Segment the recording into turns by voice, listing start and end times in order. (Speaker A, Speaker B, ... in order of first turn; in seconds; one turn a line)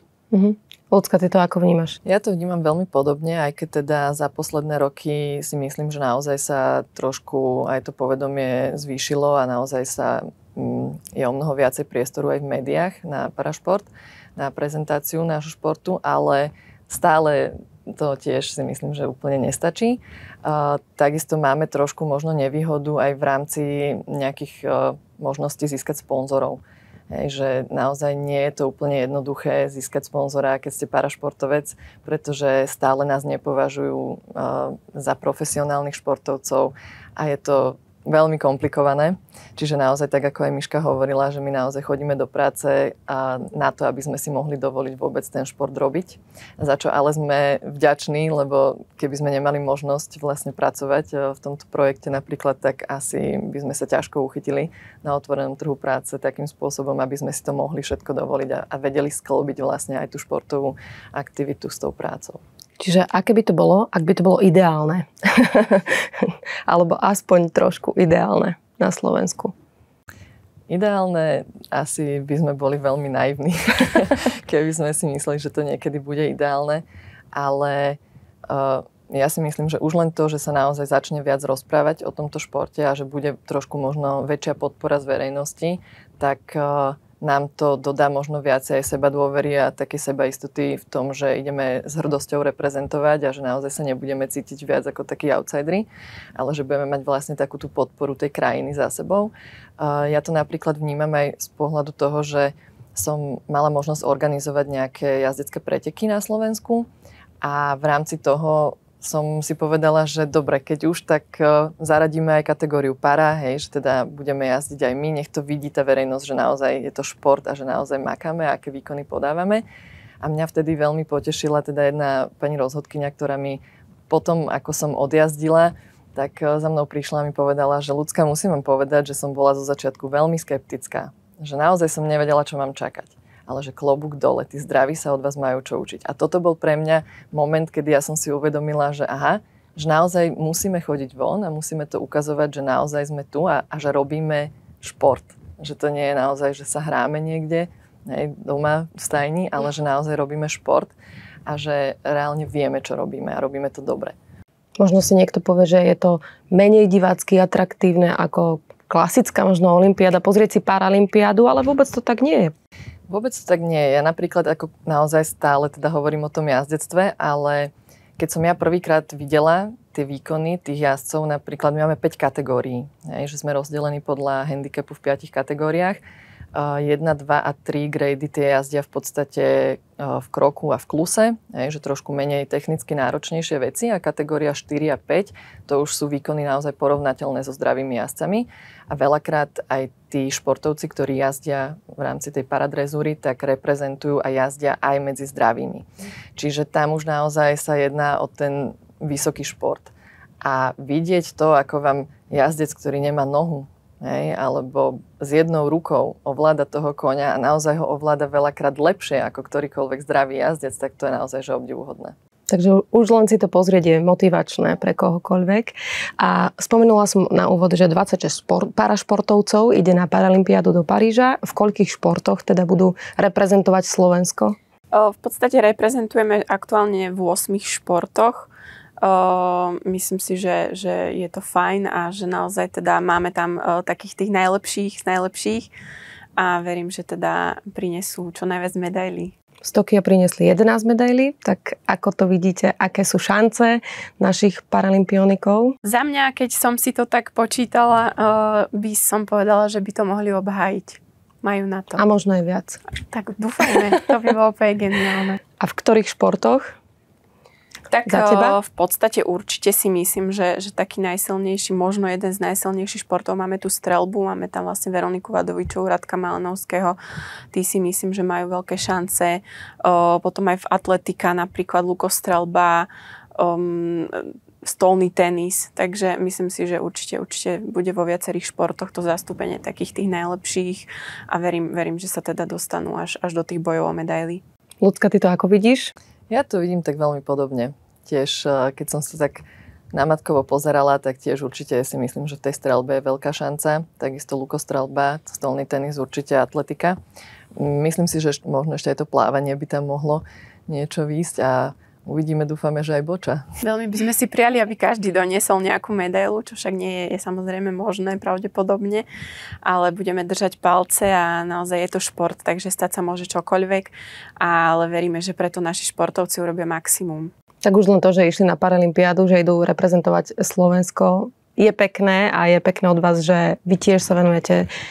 Speaker A: 0.3-2.0
Speaker B: 2.0-62.4
Speaker A: 62.8-69.5
Speaker B: 70.7-106.9
Speaker B: 107.4-119.6
Speaker B: 120.2-150.9
Speaker B: 151.5-154.1
Speaker A: 154.8-162.5
Speaker B: 163.1-176.0
Speaker B: 176.5-195.8
Speaker B: 196.4-212.2
Speaker A: 212.5-224.6
Speaker C: 224.9-228.5
Speaker C: 229.0-235.7
Speaker C: 236.4-239.3
Speaker A: 239.6-245.7
Speaker C: 245.8-252.0
Speaker A: 252.0-252.8
Speaker C: 253.1-255.4
Speaker A: 255.6-256.7
Speaker C: 257.9-267.0
Speaker A: 258.1-258.6
Speaker C: 267.5-284.4
Speaker A: 284.8-285.9
Speaker B: 286.3-297.0
Speaker B: 297.6-303.5
Speaker C: 303.6-309.1
Speaker C: 309.6-317.3
Speaker A: 317.6-324.7